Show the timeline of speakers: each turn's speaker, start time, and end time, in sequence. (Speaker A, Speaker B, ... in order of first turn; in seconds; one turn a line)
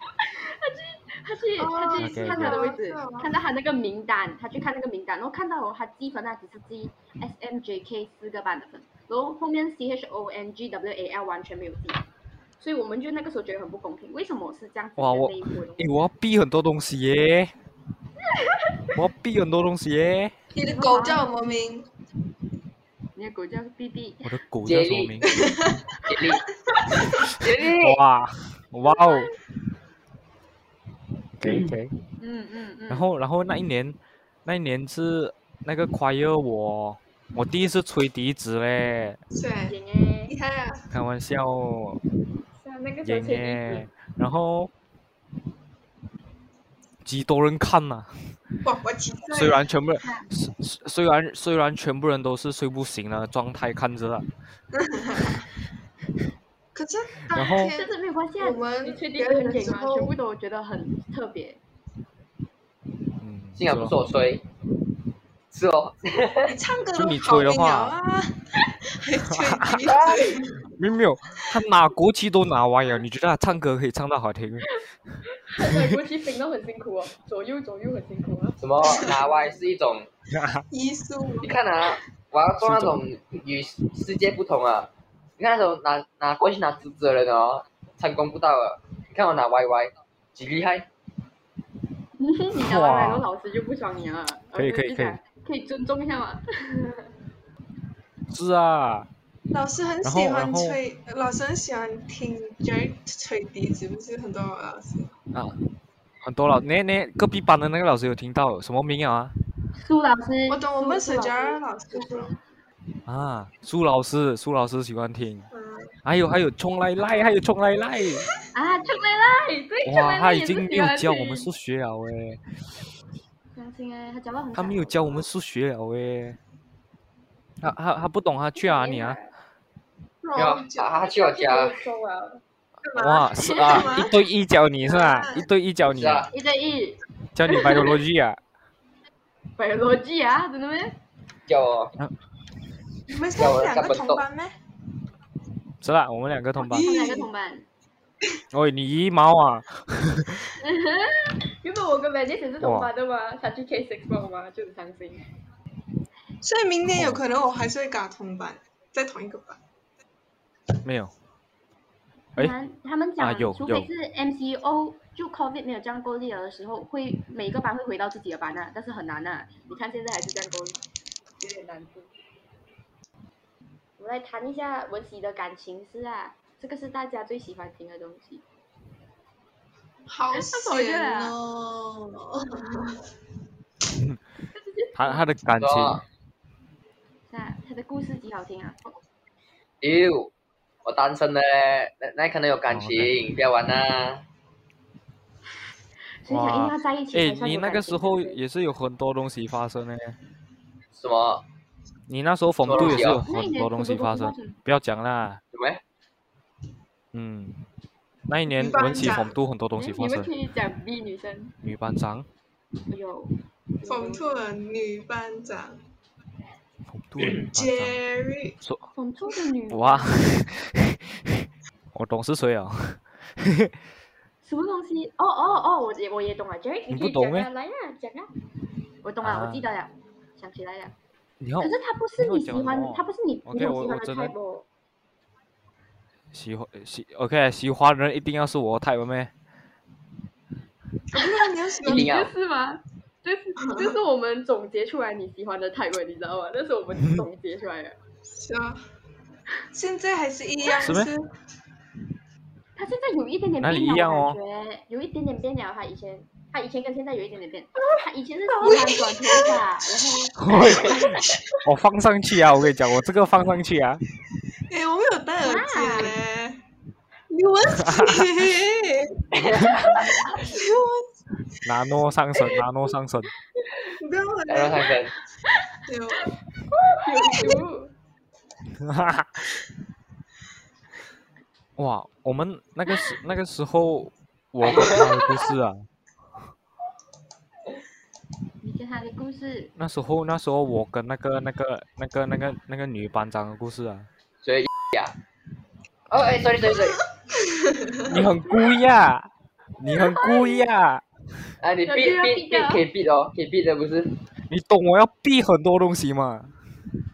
Speaker A: 0.2-12.0
Speaker B: 1.6-3.3
Speaker C: 2.0-2.6
Speaker A: 12.6-15.9
Speaker C: 15.0-17.5
Speaker A: 18.2-18.9
Speaker C: 18.9-20.3
Speaker B: 20.5-21.9
Speaker A: 20.6-21.5
Speaker A: 23.1-24.4
Speaker C: 24.2-25.4
Speaker D: 24.6-25.3
Speaker B: 25.3-25.8
Speaker D: 26.1-26.4
Speaker D: 27.0-28.0
Speaker C: 27.6-29.3
Speaker A: 28.9-29.3
Speaker C: 31.4-31.9
Speaker A: 32.2-33.1
Speaker C: 32.9-39.2
Speaker B: 39.3-40.8
Speaker A: 39.7-40.3
Speaker C: 40.9-42.0
Speaker A: 42.5-43.9
Speaker C: 43.0-44.7
Speaker C: 47.0-48.3
Speaker B: 48.6-49.6
Speaker C: 49.3-54.3
Speaker A: 50.0-50.3
Speaker B: 54.7-55.5
Speaker B: 56.7-60.1
Speaker C: 57.3-57.7
Speaker A: 57.7-61.6
Speaker C: 63.2-63.9
Speaker D: 63.6-64.4
Speaker D: 65.5-66.6
Speaker B: 66.5-70.6
Speaker C: 67.0-68.0
Speaker C: 69.3-69.8
Speaker D: 69.9-70.4
Speaker C: 70.7-74.8
Speaker A: 75.4-78.6
Speaker D: 78.6-80.1
Speaker C: 80.3-80.6
Speaker B: 80.7-81.5
Speaker D: 81.4-90.9
Speaker C: 82.6-83.0
Speaker A: 92.2-97.1
Speaker C: 92.5-93.2
Speaker C: 94.5-95.2
Speaker C: 98.3-99.1
Speaker B: 99.5-105.1
Speaker C: 100.0-100.8
Speaker C: 106.2-109.3
Speaker A: 109.8-112.3
Speaker B: 110.5-112.4
Speaker C: 113.0-115.5
Speaker B: 115.5-115.9
Speaker C: 116.0-118.2
Speaker A: 117.1-117.3
Speaker A: 118.5-121.5
Speaker C: 119.8-122.4
Speaker A: 123.5-125.2
Speaker C: 124.5-126.4
Speaker C: 127.6-129.2
Speaker A: 128.6-129.3
Speaker B: 130.2-131.0
Speaker D: 130.3-131.8
Speaker A: 131.0-132.4
Speaker B: 132.8-134.1
Speaker C: 132.9-136.3
Speaker B: 134.8-135.5
Speaker D: 135.9-136.3
Speaker A: 136.3-138.0
Speaker C: 137.3-138.4
Speaker A: 139.6-140.9
Speaker D: 141.5-141.9
Speaker B: 143.1-144.5
Speaker D: 143.3-144.2
Speaker C: 145.8-146.9
Speaker A: 146.6-147.7
Speaker B: 146.7-147.3
Speaker C: 148.5-150.5
Speaker A: 150.6-155.2
Speaker C: 152.6-152.9
Speaker B: 156.4-159.6
Speaker C: 156.9-157.2
Speaker C: 160.8-161.1
Speaker A: 162.3-170.8
Speaker C: 163.2-163.9
Speaker A: 171.4-172.1
Speaker A: 174.0-178.4
Speaker B: 180.1-183.0
Speaker A: 180.3-181.3
Speaker A: 184.5-185.2
Speaker C: 184.9-186.0
Speaker D: 185.6-186.0
Speaker A: 187.3-188.9
Speaker D: 189.8-190.3
Speaker D: 190.8-194.2
Speaker C: 192.7-193.1
Speaker A: 196.2-198.4
Speaker C: 196.3-200.2
Speaker D: 200.9-201.4
Speaker C: 202.1-205.4
Speaker D: 202.6-203.2
Speaker A: 202.7-204.6
Speaker D: 205.5-205.8
Speaker C: 207.1-207.6
Speaker C: 208.3-210.3
Speaker B: 208.5-209.4
Speaker A: 209.8-211.5
Speaker C: 211.6-212.3
Speaker A: 212.9-214.4
Speaker B: 213.8-215.8
Speaker C: 216.9-218.0
Speaker B: 217.4-218.6
Speaker A: 218.9-220.3
Speaker C: 219.7-223.8
Speaker A: 224.4-228.3
Speaker C: 226.9-227.5
Speaker A: 229.0-230.9
Speaker C: 229.2-229.6
Speaker C: 231.4-234.3
Speaker A: 231.6-234.7
Speaker C: 236.3-239.3
Speaker B: 241.1-242.1
Speaker A: 241.8-248.0
Speaker D: 241.8-242.3
Speaker B: 243.6-243.9
Speaker B: 248.3-248.8
Speaker B: 249.7-251.3
Speaker C: 250.8-251.1
Speaker A: 252.8-261.0
Speaker C: 253.6-254.4
Speaker B: 258.5-261.4
Speaker C: 260.4-264.0
Speaker B: 264.7-266.6
Speaker A: 265.4-266.2
Speaker B: 267.3-269.3
Speaker C: 267.8-268.3
Speaker D: 269.3-269.9
Speaker C: 269.6-270.1
Speaker A: 269.9-270.6
Speaker B: 270.4-271.1
Speaker C: 271.6-273.3
Speaker B: 274.0-275.0
Speaker D: 274.5-275.1
Speaker B: 275.9-276.3
Speaker A: 276.8-277.9
Speaker B: 277.3-277.6
Speaker C: 278.7-279.6
Speaker C: 281.8-285.9
Speaker D: 284.7-285.0
Speaker A: 288.6-289.7
Speaker C: 289.8-294.1
Speaker D: 294.4-295.1
Speaker D: 296.1-297.0
Speaker B: 297.5-298.1
Speaker C: 298.0-301.0
Speaker A: 299.9-300.7
Speaker D: 301.6-304.1
Speaker A: 301.9-302.8
Speaker C: 304.5-306.5